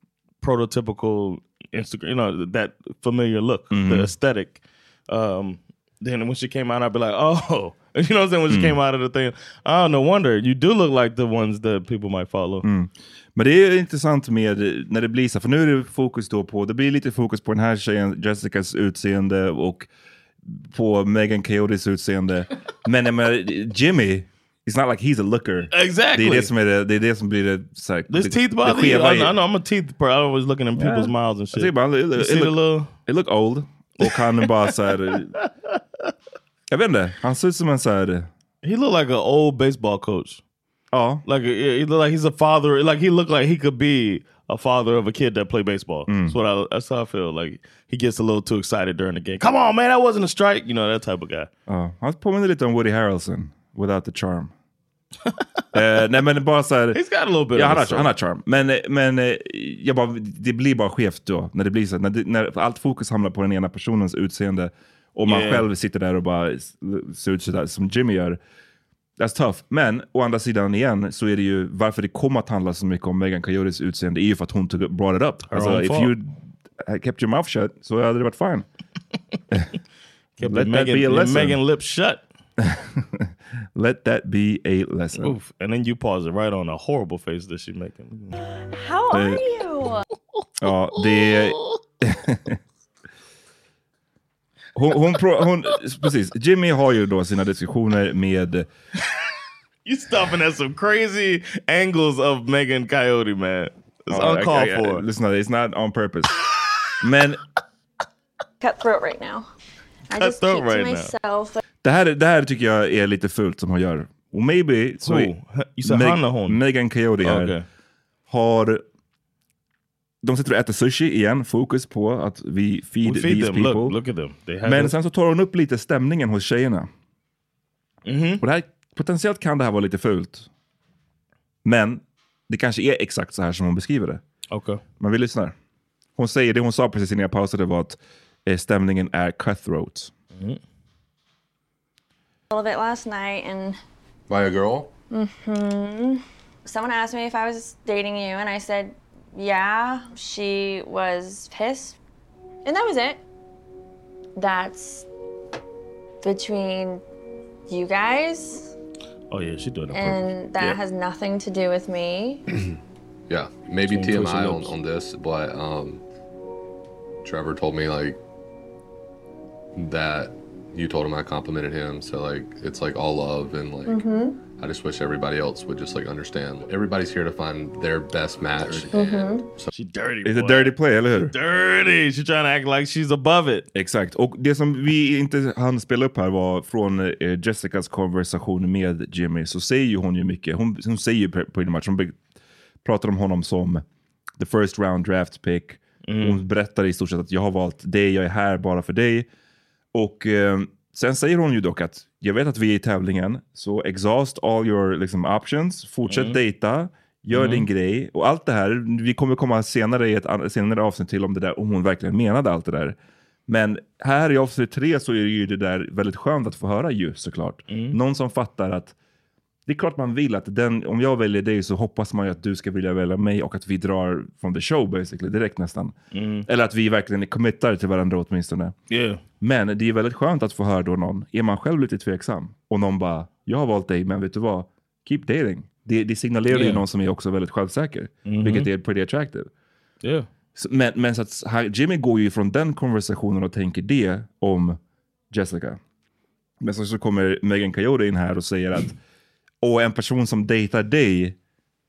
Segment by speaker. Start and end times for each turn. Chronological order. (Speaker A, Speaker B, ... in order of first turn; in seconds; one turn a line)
Speaker A: 0.4-12.7
Speaker B: 3.7-4.1
Speaker B: 8.5-8.8
Speaker B: 12.6-19.9
Speaker B: 20.5-29.3
Speaker A: 25.7-26.5
Speaker A: 28.1-32.9
Speaker B: 30.8-35.3
Speaker A: 34.0-34.5
Speaker A: 35.4-35.8
Speaker B: 36.7-38.3
Speaker A: 38.6-40.4
Speaker B: 40.9-41.2
Speaker A: 41.2-51.5
Speaker B: 46.1-46.4
Speaker B: 51.7-54.5
Speaker B: 55.7-57.0
Speaker A: 56.9-58.1
Speaker B: 57.5-68.4
Speaker A: 65.2-65.7
Speaker B: 69.2-78.7
Speaker A: 75.5-76.1
Speaker A: 80.4-82.2
Speaker B: 80.4-81.6
Speaker B: 82.6-85.3
Speaker A: 85.2-88.4
Speaker C: 88.8-90.0
Speaker B: 89.1-89.4
Speaker B: 90.6-92.6
Speaker A: 91.0-91.4
Speaker B: 94.8-98.7
Speaker A: 99.8-105.0
Speaker B: 104.1-106.4
Speaker B: 107.0-107.4
Speaker C: 108.6-109.4
Speaker A: 110.1-111.1
Speaker C: 110.2-111.6
Speaker B: 111.8-115.3
Speaker A: 115.0-116.6
Speaker B: 115.8-117.5
Speaker A: 117.2-117.7
Speaker B: 118.3-118.8
Speaker B: 120.2-124.0
Speaker A: 123.0-125.0
Speaker B: 124.7-126.9
Speaker A: 128.1-128.4
Speaker B: 128.4-130.5
Speaker B: 131.7-134.2
Speaker A: 134.5-134.8
Speaker B: 135.0-135.5
Speaker B: 136.2-140.1
Speaker A: 140.3-140.6
Speaker C: 142.5-143.7
Speaker D: 144.3-144.9
Speaker C: 145.1-152.0
Speaker C: 152.7-153.2
Speaker C: 154.4-155.1
Speaker C: 156.2-157.0
Speaker C: 157.7-158.7
Speaker A: 159.3-160.8
Speaker C: 159.9-162.4
Speaker D: 163.3-166.0
Speaker A: 163.8-164.8
Speaker D: 167.2-168.2
Speaker D: 169.8-174.0
Speaker C: 173.9-174.3
Speaker D: 174.5-179.7
Speaker C: 179.0-179.4
Speaker A: 179.7-183.7
Speaker B: 180.2-181.3
Speaker B: 183.7-192.2
Speaker B: 192.8-193.8
Speaker B: 194.4-199.3
Speaker A: 196.1-196.4
Speaker B: 199.9-213.0
Speaker A: 206.1-206.4
Speaker A: 207.3-207.7
Speaker B: 213.5-218.9
Speaker A: 217.7-218.0
Speaker B: 219.7-226.0
Speaker A: 226.1-226.5
Speaker B: 226.5-228.8
Speaker A: 228.9-229.2
Speaker B: 229.4-239.5
Speaker A: 236.5-236.8
Speaker A: 238.3-238.7
Speaker A: 240.0-240.3
Speaker B: 240.6-244.8
Speaker B: 245.3-245.8
Speaker B: 246.6-249.0
Speaker B: 249.6-251.4